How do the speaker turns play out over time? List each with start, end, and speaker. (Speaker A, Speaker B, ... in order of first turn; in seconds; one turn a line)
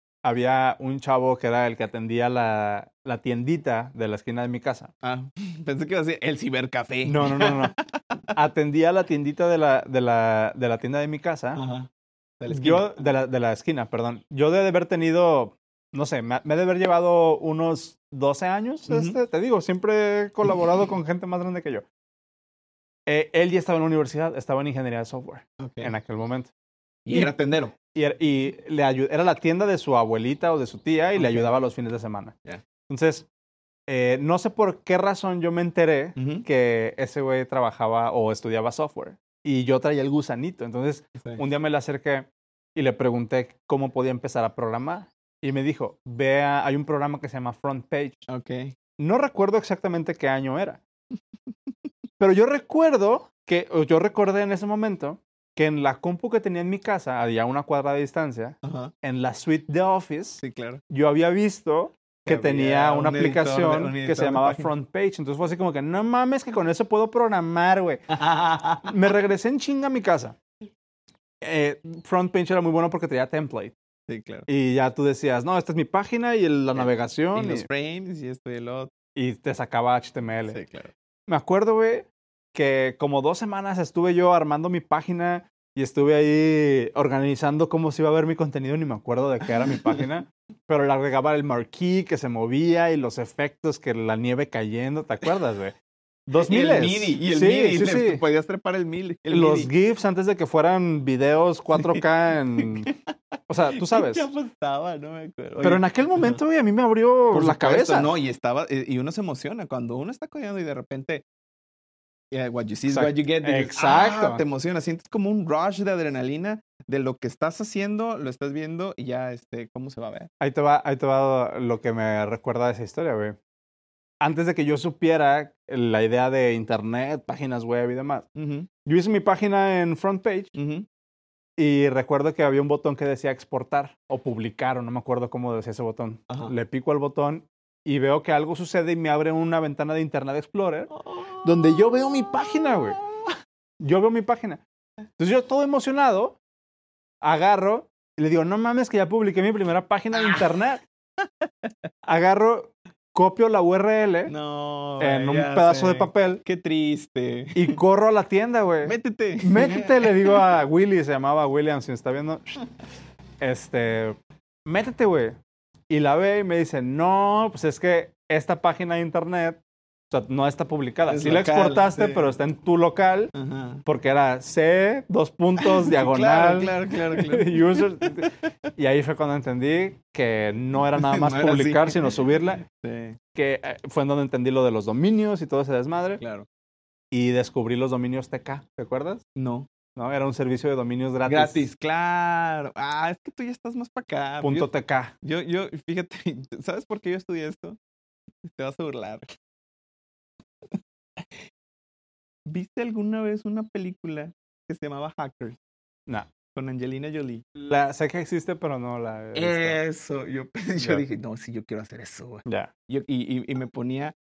Speaker A: 0.2-4.9
Speaker B: 5.0-8.0
Speaker A: 7.0-7.7
Speaker A: 8.3-11.6
Speaker B: 11.5-11.9
Speaker B: 12.4-12.9
Speaker A: 12.5-21.8
Speaker B: 18.9-19.2
Speaker A: 23.1-26.5
Speaker B: 25.6-25.9
Speaker B: 27.1-27.8
Speaker A: 27.9-32.3
Speaker B: 31.1-31.5
Speaker A: 32.9-33.2
Speaker A: 33.9-48.2
Speaker B: 36.2-36.5
Speaker B: 41.1-41.4
Speaker B: 48.3-48.7
Speaker A: 49.0-50.8
Speaker A: 52.2-68.1
Speaker B: 58.6-58.9
Speaker B: 60.4-60.8
Speaker B: 62.2-64.7
Speaker B: 68.1-68.9
Speaker A: 68.8-70.3
Speaker A: 71.4-73.7
Speaker B: 74.1-74.5
Speaker A: 74.5-77.7
Speaker B: 76.7-78.9
Speaker A: 79.2-80.6
Speaker B: 80.5-80.9
Speaker A: 81.3-95.7
Speaker A: 96.3-98.2
Speaker B: 96.4-99.7
Speaker A: 99.3-102.9
Speaker B: 101.7-102.0
Speaker B: 102.6-102.9
Speaker A: 103.5-104.3
Speaker B: 103.7-106.4
Speaker A: 105.6-108.1
Speaker B: 107.3-111.2
Speaker B: 112.3-120.3
Speaker A: 112.9-114.4
Speaker A: 120.4-123.4
Speaker A: 124.2-128.3
Speaker B: 128.3-128.7
Speaker A: 128.8-130.5
Speaker B: 130.5-130.9
Speaker A: 131.6-140.9
Speaker B: 136.3-136.5
Speaker B: 140.9-143.2
Speaker A: 141.4-143.0
Speaker A: 143.8-144.6
Speaker A: 145.2-146.4
Speaker A: 147.2-150.8
Speaker A: 152.0-154.3
Speaker B: 154.3-157.8
Speaker A: 155.0-156.4
Speaker A: 157.5-162.6
Speaker B: 158.8-160.4
Speaker A: 163.4-164.2
Speaker A: 164.7-165.4
Speaker A: 165.9-173.3
Speaker B: 171.1-172.3
Speaker B: 173.3-173.8
Speaker A: 173.8-182.6
Speaker B: 175.6-178.2
Speaker B: 180.9-182.1
Speaker B: 182.6-183.2
Speaker A: 183.3-186.2
Speaker B: 186.2-186.5
Speaker A: 187.1-189.2
Speaker B: 189.3-189.7
Speaker A: 189.9-191.6
Speaker B: 191.2-197.8
Speaker A: 194.4-195.1
Speaker B: 198.5-199.2
Speaker B: 202.5-205.6
Speaker B: 206.5-207.4
Speaker A: 207.5-209.8
Speaker B: 209.3-214.1